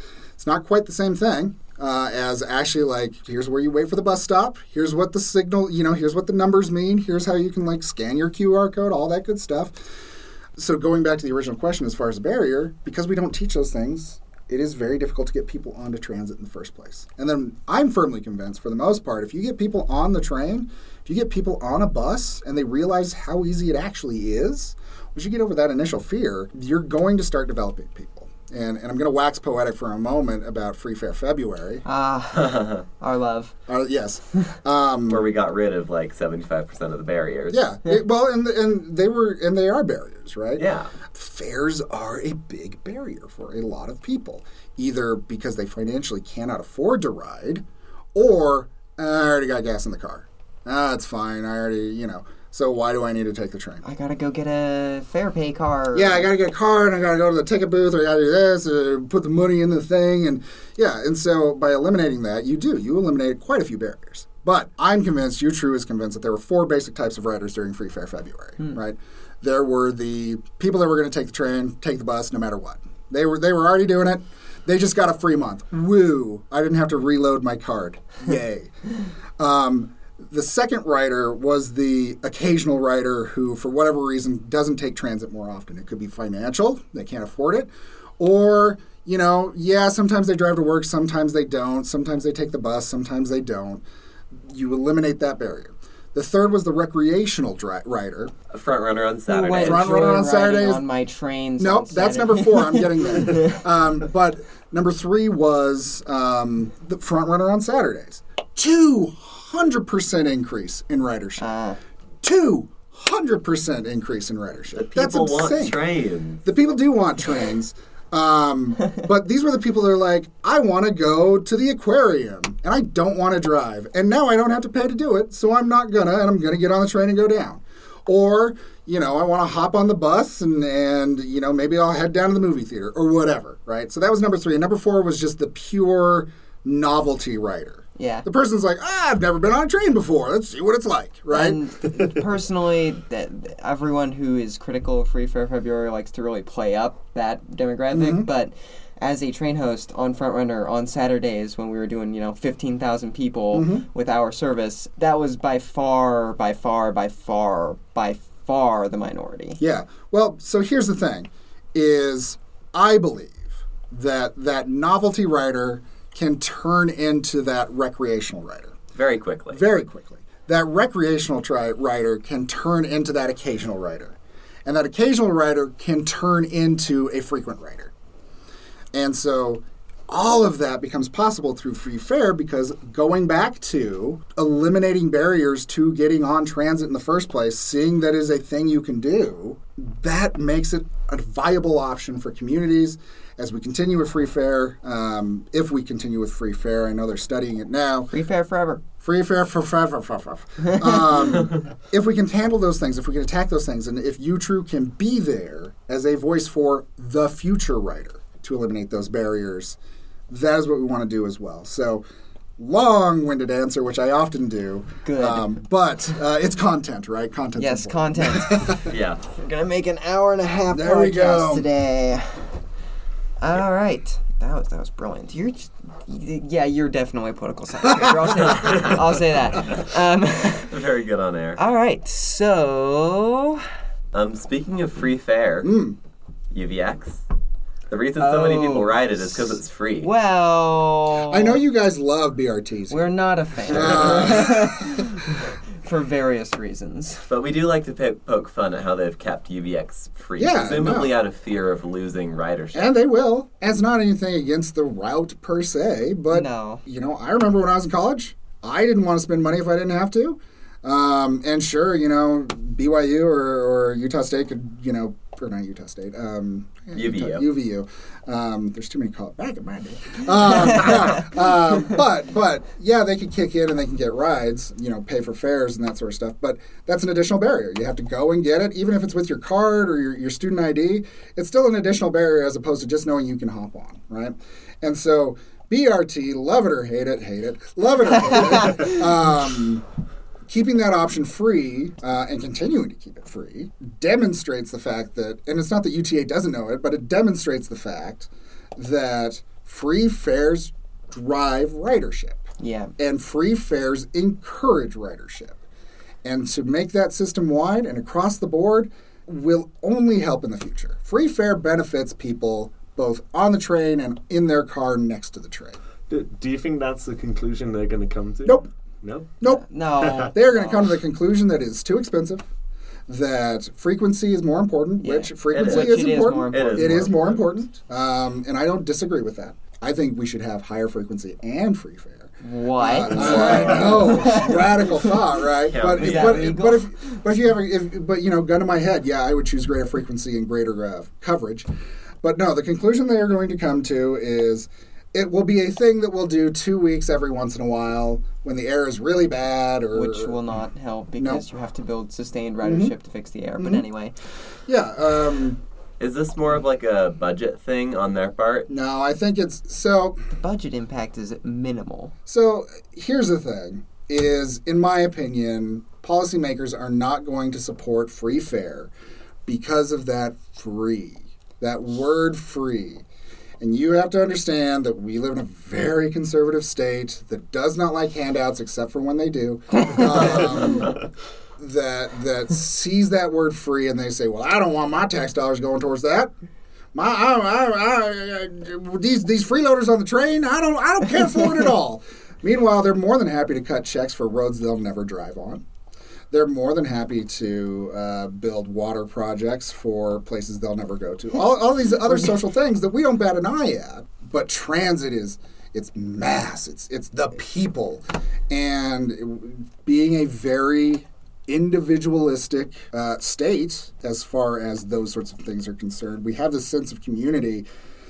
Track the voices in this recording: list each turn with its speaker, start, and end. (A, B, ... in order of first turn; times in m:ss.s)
0:00.4-0:09.8 A
0:10.6-0:31.8 A
0:31.8-0:33.5 B
0:32.3-0:32.8 C
0:33.7-0:35.2 A
0:35.1-0:37.6 C
0:37.5-0:47.6 A
0:40.6-0:40.9 C
0:48.1-0:53.8 A
0:53.8-0:56.3 B
0:55.9-1:18.7 A
1:19.4-1:38.3 A
1:38.5-1:39.9 C
1:39.3-1:43.6 B
1:39.6-1:40.8 A
1:41.6-1:51.4 A
1:51.4-1:51.8 B
1:52.2-1:55.8 A
1:54.7-1:56.4 C
1:56.4-2:21.6 A
2:18.0-2:18.2 B
2:21.3-2:39.6 B
2:27.9-2:28.3 A
2:33.5-2:33.8 A
2:39.6-2:48.8 A
2:48.9-2:49.6 C
2:49.5-2:57.9 A
2:58.9-3:18.1 A
3:18.1-3:18.8 B
3:19.0-3:29.8 A
3:20.6-3:21.1 B
3:30.3-3:32.0 A
3:32.6-3:38.8 A
3:35.0-3:35.5 B
3:37.6-3:42.5 B
3:38.9-3:39.2 C
3:40.7-3:41.6 A
3:43.4-3:50.8 B
3:47.9-3:48.1 A
3:48.6-3:49.0 C
3:50.7-3:51.6 C
3:51.6-3:53.6 B
3:54.1-3:55.7 C
3:55.6-3:56.0 A
3:56.5-3:57.2 C
3:57.9-4:00.1 C
3:58.2-3:59.5 B
4:00.0-4:01.6 B
4:01.2-4:03.1 A
4:02.9-4:07.3 B
4:03.7-4:04.9 A
4:03.9-4:04.2 C
4:07.3-4:12.9 C
4:10.4-4:11.2 A
4:12.7-4:49.8 A
4:16.3-4:16.8 B
4:26.9-4:27.4 C
4:48.4-4:48.9 B
4:50.5-5:02.4 A
5:02.6-5:02.9 B
5:03.0-5:05.6 A
5:06.2-5:15.8 A
5:16.1-5:19.3 D
5:19.4-5:22.5 A
5:19.4-5:20.9 B
5:20.0-5:20.3 D
5:23.1-5:41.6 A
5:25.0-5:27.1 B
5:25.5-5:27.4 C
5:32.4-5:35.0 B
5:35.6-5:36.5 C
5:35.9-5:37.2 B
5:42.2-5:50.4 A
5:49.9-5:54.1 B
5:51.2-5:51.4 A
5:52.6-5:52.9 A
5:53.6-5:53.8 A
5:54.6-5:55.6 A
5:56.0-5:58.7 C
5:58.7-6:00.2 A
6:00.3-6:02.1 B
6:02.2-6:08.9 A
6:09.4-6:13.0 A
6:13.6-6:21.0 A
6:21.6-6:26.3 A
6:26.9-6:35.6 A
6:36.3-6:57.6 A